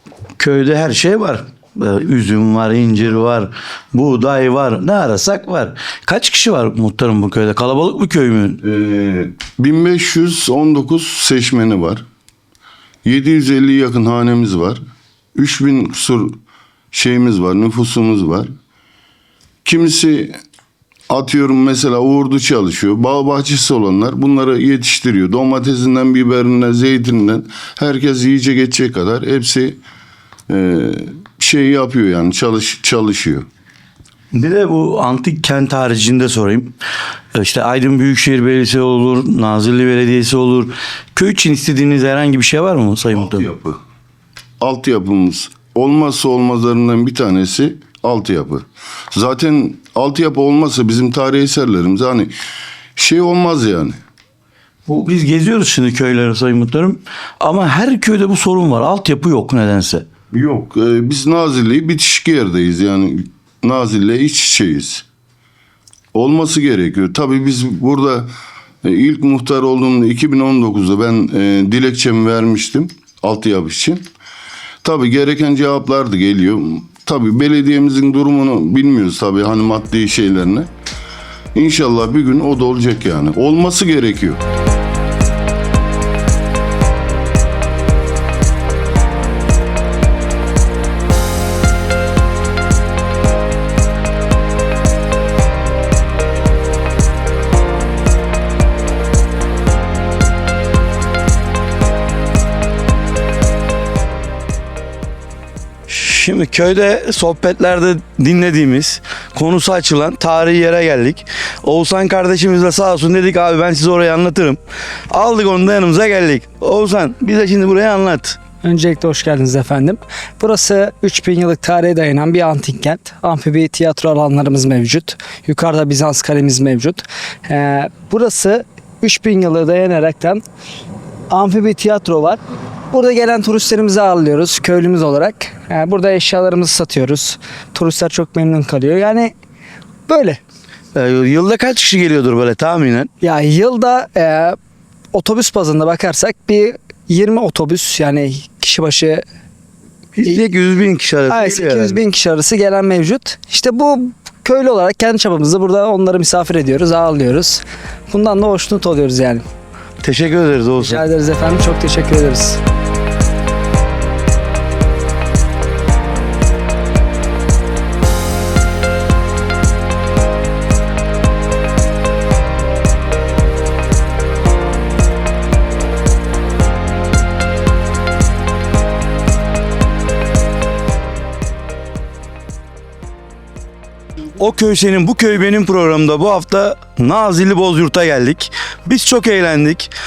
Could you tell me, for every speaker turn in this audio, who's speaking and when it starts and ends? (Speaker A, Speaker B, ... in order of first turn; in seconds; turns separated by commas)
Speaker A: 0.4-8.6, Speaker B: 8.6-12.0, Speaker B: 13.0-14.8, Speaker B: 15.3-16.4, Speaker B: 16.9-18.5, Speaker B: 19.6-20.4, Speaker B: 21.1-29.8, Speaker B: 30.5-33.5, Speaker A: 34.3-36.7, Speaker A: 37.3-43.5, Speaker B: 43.2-43.8, Speaker B: 44.6-52.3, Speaker B: 53.0-54.0, Speaker A: 54.9-60.1, Speaker B: 60.3-65.0, Speaker B: 66.1-68.3, Speaker B: 68.8-74.1, Speaker B: 74.8-80.7, Speaker B: 81.5-84.4, Speaker A: 105.9-118.3, Speaker C: 118.6-130.4, Speaker C: 131.3-132.4, Speaker C: 132.9-139.3, Speaker C: 140.1-140.4, Speaker A: 140.9-143.1, Speaker C: 143.2-144.6, Speaker C: 145.1-149.2, Speaker A: 150.2-152.0, Speaker C: 151.3-159.4, Speaker A: 160.0-161.0, Speaker C: 160.8-162.6, Speaker A: 184.4-189.9